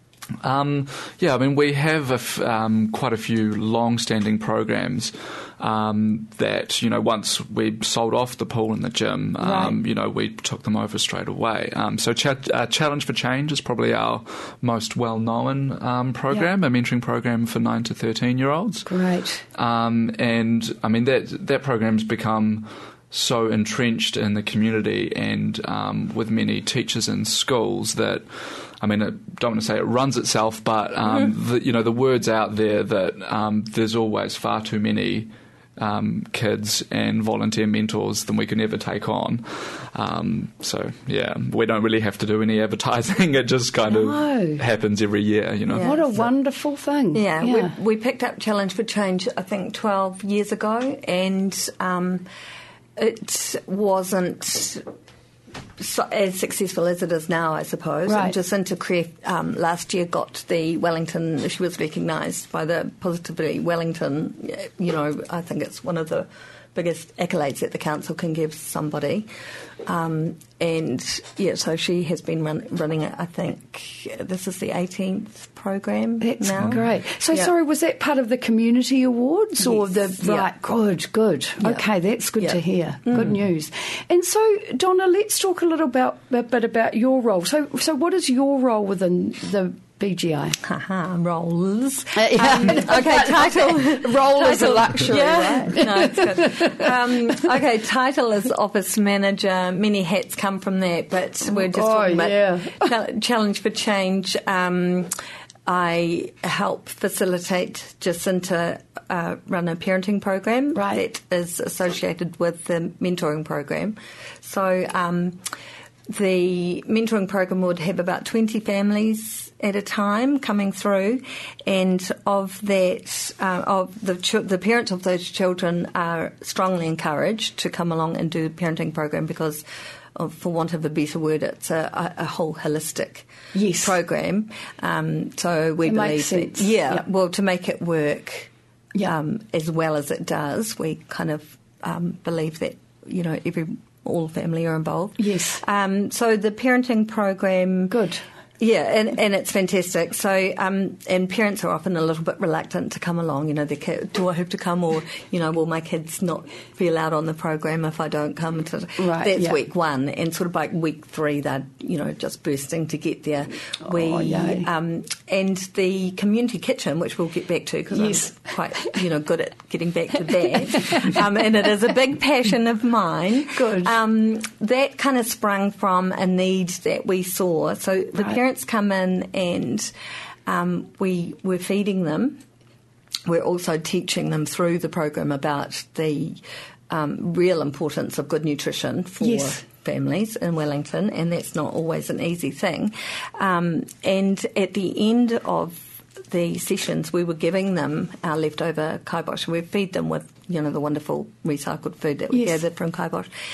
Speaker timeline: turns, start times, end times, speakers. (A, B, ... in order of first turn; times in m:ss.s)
0:00.4-0:18.9 A
0:09.4-0:09.8 B
0:18.9-0:19.4 B
0:19.6-0:46.3 A
0:43.9-0:44.6 B
0:45.7-0:46.3 C
0:45.8-0:47.7 B
0:47.1-0:52.3 C
0:53.0-0:54.8 C
0:55.8-1:09.3 C
0:58.1-0:58.4 B
1:09.9-1:17.5 C
1:16.2-1:30.6 B
1:19.6-1:20.5 C
1:21.6-1:21.9 C
1:22.4-1:23.4 C
1:30.6-1:45.1 C
1:32.2-1:36.8 B
1:41.4-1:42.9 B
1:45.7-1:55.4 C
1:50.7-1:51.0 B
1:56.1-2:09.6 C
2:10.2-2:27.9 C
2:13.5-2:14.0 B
2:15.8-2:17.0 B
2:25.2-2:25.6 B
2:27.9-2:28.2 B
2:28.6-2:59.9 C
2:39.0-2:39.6 B
2:43.8-2:44.7 B
2:47.9-2:49.0 B
2:53.6-2:53.9 B
3:00.5-3:02.4 C
3:03.3-3:06.4 C
3:06.9-3:23.3 C
3:09.2-3:09.6 B
3:22.3-3:22.6 B